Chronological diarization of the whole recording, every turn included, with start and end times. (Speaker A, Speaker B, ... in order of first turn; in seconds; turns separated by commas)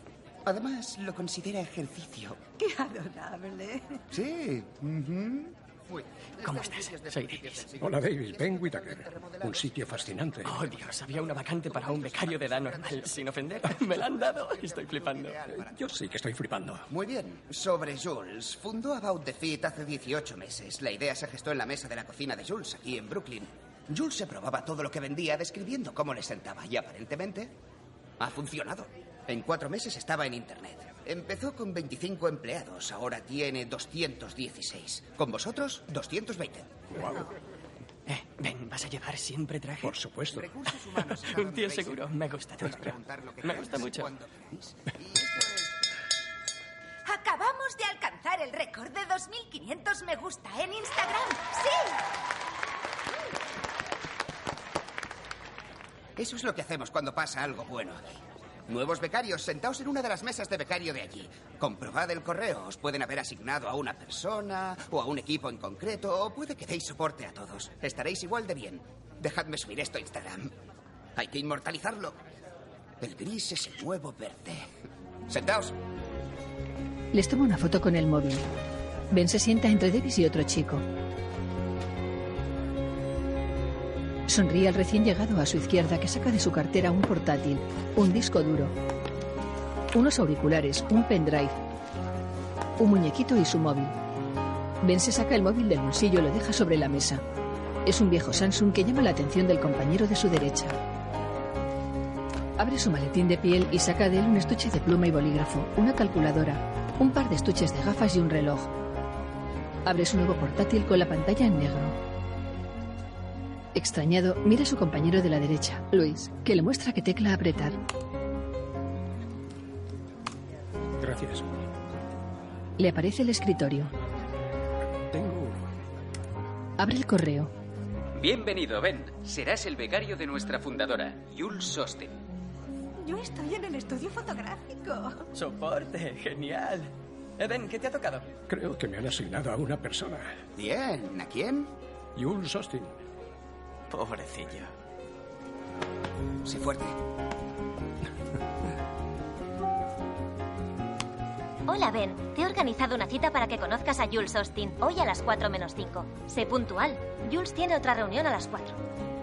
Speaker A: 0.5-2.4, Speaker B: 2.6-3.9, Speaker A: 4.1-15.9, Speaker C: 6.4-7.7, Speaker D: 7.8-10.6, Speaker C: 10.4-15.4, Speaker D: 15.7-16.9, Speaker A: 16.9-27.5, Speaker A: 28.2-36.8, Speaker D: 36.9-37.2, Speaker C: 38.1-40.0, Speaker D: 39.8-40.5, Speaker A: 40.3-45.8, Speaker C: 40.9-44.1, Speaker B: 47.1-52.0, Speaker A: 56.2-58.0, Speaker A: 58.7-70.5, Speaker A: 71.2-72.2, Speaker A: 73.0-74.7, Speaker A: 75.3-75.8, Speaker E: 77.1-78.5, Speaker E: 79.1-80.8, Speaker E: 84.3-88.8, Speaker E: 89.9-91.6, Speaker E: 92.8-94.0, Speaker E: 94.8-97.2, Speaker E: 97.8-100.8, Speaker E: 102.6-108.7, Speaker E: 109.8-112.0, Speaker E: 113.8-117.8, Speaker D: 121.0-121.5, Speaker E: 122.8-123.9, Speaker D: 125.1-125.6, Speaker E: 126.8-127.5, Speaker F: 128.2-132.2, Speaker G: 133.0-135.3, Speaker C: 135.3-138.3, Speaker D: 138.5-140.3, Speaker A: 140.6-141.7, Speaker D: 142.2-142.9, Speaker C: 143.9-144.7, Speaker A: 146.4-147.0, Speaker H: 151.7-158.8